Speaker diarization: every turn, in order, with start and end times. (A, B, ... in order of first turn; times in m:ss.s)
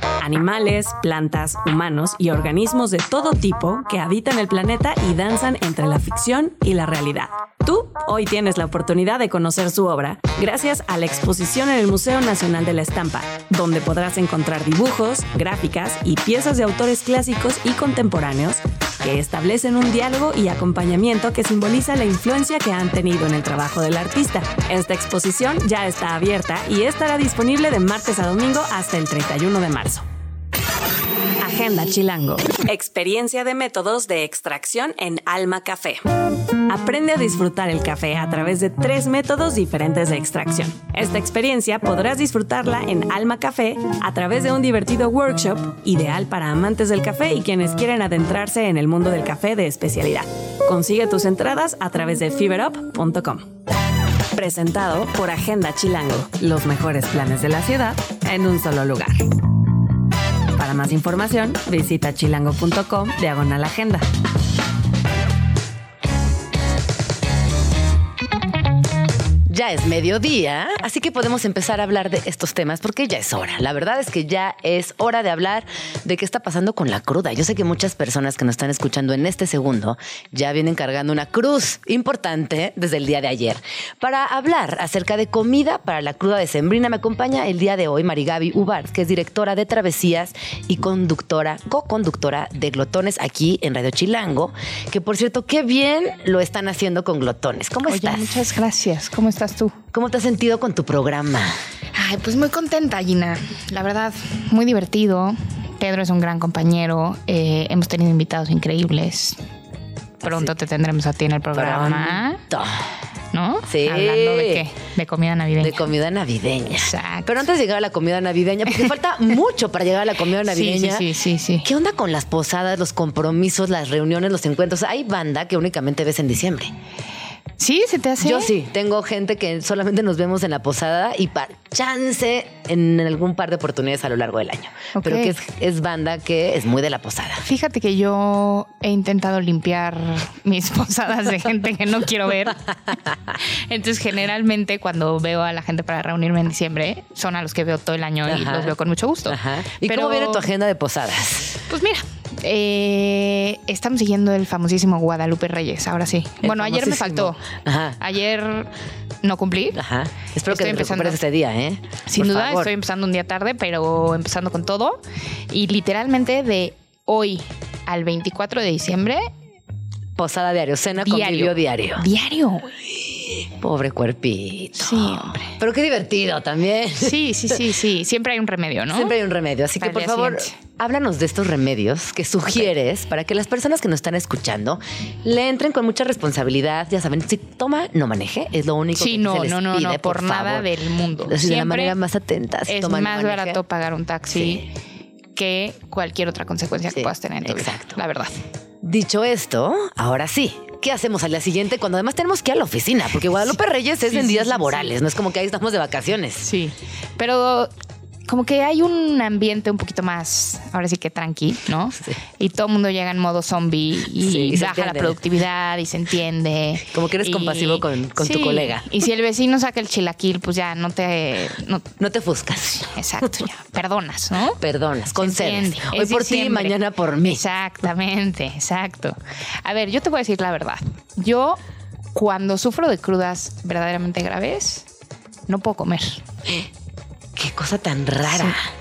0:00.2-0:30.0 A
0:31.4-0:36.0 A
0:36.7-0:53.5 A
0:54.3-0:59.3 A
1:00.6-1:04.0 A
1:09.5-1:38.4 B
1:37.8-1:39.7 C
1:39.9-1:41.6 B
1:42.0-1:49.4 C
1:50.2-1:50.5 B
1:50.2-1:52.4 C
1:51.5-1:52.9 B
1:53.3-1:55.8 C
1:53.7-1:54.6 B
1:55.6-2:01.1 B
1:56.8-1:57.4 C
2:00.4-2:01.6 C
2:01.6-2:06.7 B
2:07.6-2:08.5 C
2:08.2-2:17.4 B
2:15.0-2:15.3 C
2:17.4-2:22.7 C
2:23.7-2:30.4 C
2:28.2-2:28.7 B
2:29.3-2:31.6 B
2:31.7-2:37.4 C
2:36.4-2:38.0 B
2:38.0-2:38.7 C
2:39.2-2:39.8 C
2:39.7-2:42.7 B
2:40.5-2:41.2 C
2:42.1-2:49.3 C
2:50.2-2:52.0 B
2:51.0-2:52.8 C
2:53.3-2:57.6 B
2:54.8-2:55.5 C
2:57.0-2:59.1 C
2:58.9-3:10.7 B
2:59.8-3:00.5 C
3:08.9-3:12.0 C
3:11.2-3:13.6 B
3:12.7-3:14.6 C
3:14.3-3:14.7 B
3:15.3-3:18.4 C
3:16.9-3:18.0 B
3:18.8-3:26.5 B
3:24.1-3:24.9 C
3:26.4-3:27.7 C
3:28.2-3:41.9 C
3:34.2-3:35.2 B
3:36.8-3:38.9 B
3:42.0-3:43.3 B
3:42.8-3:44.6 C
3:44.6-3:47.4 B
3:45.2-3:51.6 C
3:52.1-3:54.8 C
3:55.5-3:56.2 C
3:57.4-3:58.7 B